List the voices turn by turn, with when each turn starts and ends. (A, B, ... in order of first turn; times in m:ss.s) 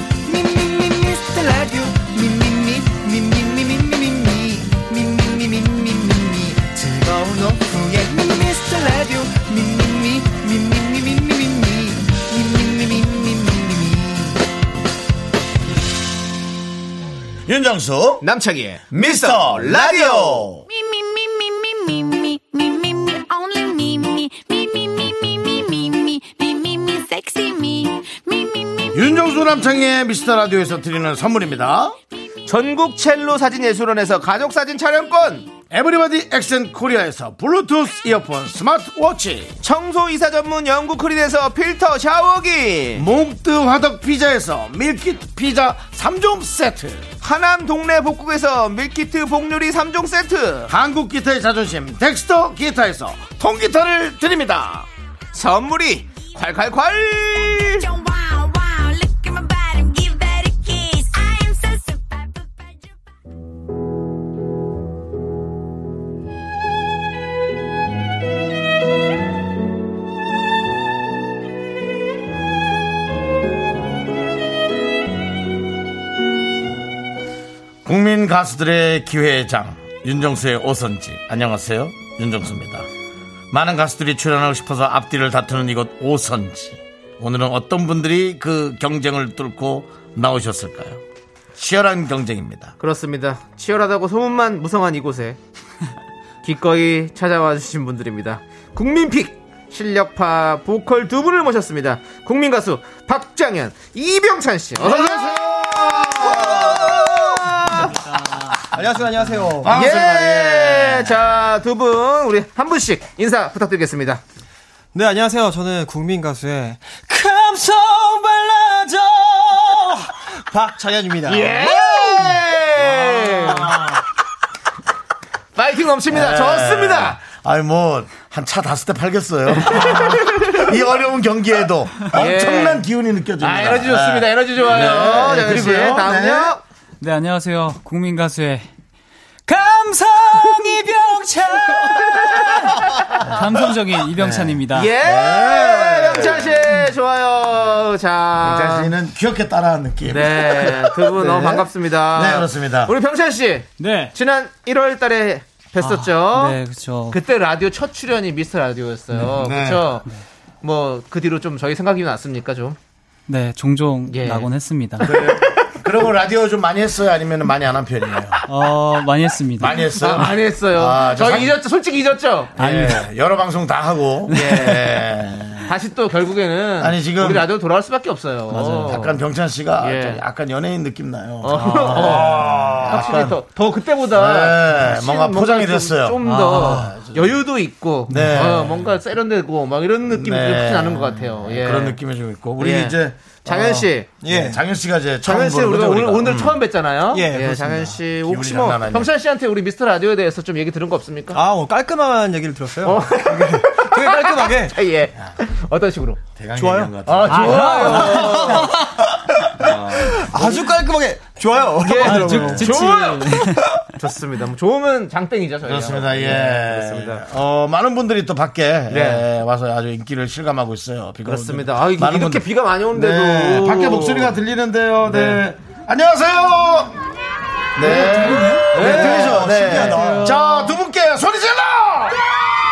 0:00.2-0:14.4 A
0:17.4-0:18.2 B
0:18.2-0:20.5 C
0:18.9-0:20.6 B
0:20.7-0:29.3 D
0:28.9-0:32.0 B
0:32.4-0:35.5 C
0:35.7-0:39.6 B
0:39.6-0:43.0 C
0:43.0-0:47.1 B
0:47.2-0:50.7 C
0:50.7-0:54.9 B
0:55.3-0:57.9 C
0:57.4-1:03.0 D
1:17.8-1:22.9 B
1:23.5-1:31.0 B
1:31.6-1:32.7 B
1:32.8-1:35.4 C
1:36.4-1:47.9 C
1:44.8-1:47.8 B
1:47.8-1:48.6 E
1:48.6-1:49.9 F
1:49.6-1:51.3 B
1:49.6-1:54.2 C
1:54.9-2:02.3 F
2:01.2-2:03.9 C
2:02.8-2:04.0 B
2:05.6-2:07.2 C
2:06.1-2:16.5 B
2:09.6-2:10.6 C
2:12.1-2:12.8 C
2:13.4-2:16.6 C
2:17.0-2:18.7 E
2:19.5-2:24.9 E
2:21.6-2:23.3 C
2:23.2-2:26.7 B
2:24.7-2:28.9 C
2:28.4-2:32.9 B
2:30.0-2:36.6 C
2:33.8-2:34.1 E
2:35.8-2:37.2 E
2:37.1-2:40.0 C
2:39.3-2:39.9 B
2:40.6-2:42.8 C
2:43.3-2:45.2 E
2:44.1-2:44.5 C
2:45.0-2:45.7 C
2:45.0-2:48.4 B
2:48.5-2:50.2 E
2:49.6-2:51.6 B
2:49.7-2:52.6 C
2:52.6-2:55.7 B
2:52.6-2:53.1 E
2:54.3-2:55.0 C
2:55.6-2:59.2 C
2:56.8-2:57.5 B
2:58.5-3:03.4 B
2:59.8-3:00.2 C
3:01.4-3:12.0 C
3:04.1-3:07.4 B
3:06.2-3:06.9 E
3:08.1-3:09.0 B
3:10.0-3:16.6 B
3:12.6-3:14.1 C
3:14.2-3:14.6 F
3:15.2-3:21.4 C
3:17.1-3:18.0 F
3:18.2-3:19.1 B
3:21.3-3:24.8 F
3:22.8-3:26.2 C
3:26.4-3:28.8 B
3:26.6-3:32.8 F
3:27.0-3:28.7 C
3:27.3-3:28.4 E
3:29.5-3:30.6 B
3:31.8-3:33.4 C
3:32.0-3:33.6 E
3:33.9-3:37.2 C
3:35.6-3:47.0 B
3:38.9-3:39.3 C
3:41.2-3:44.4 C
3:45.0-3:45.4 C
3:47.8-3:52.3 B
3:47.8-3:49.6 C
3:47.8-3:50.4 F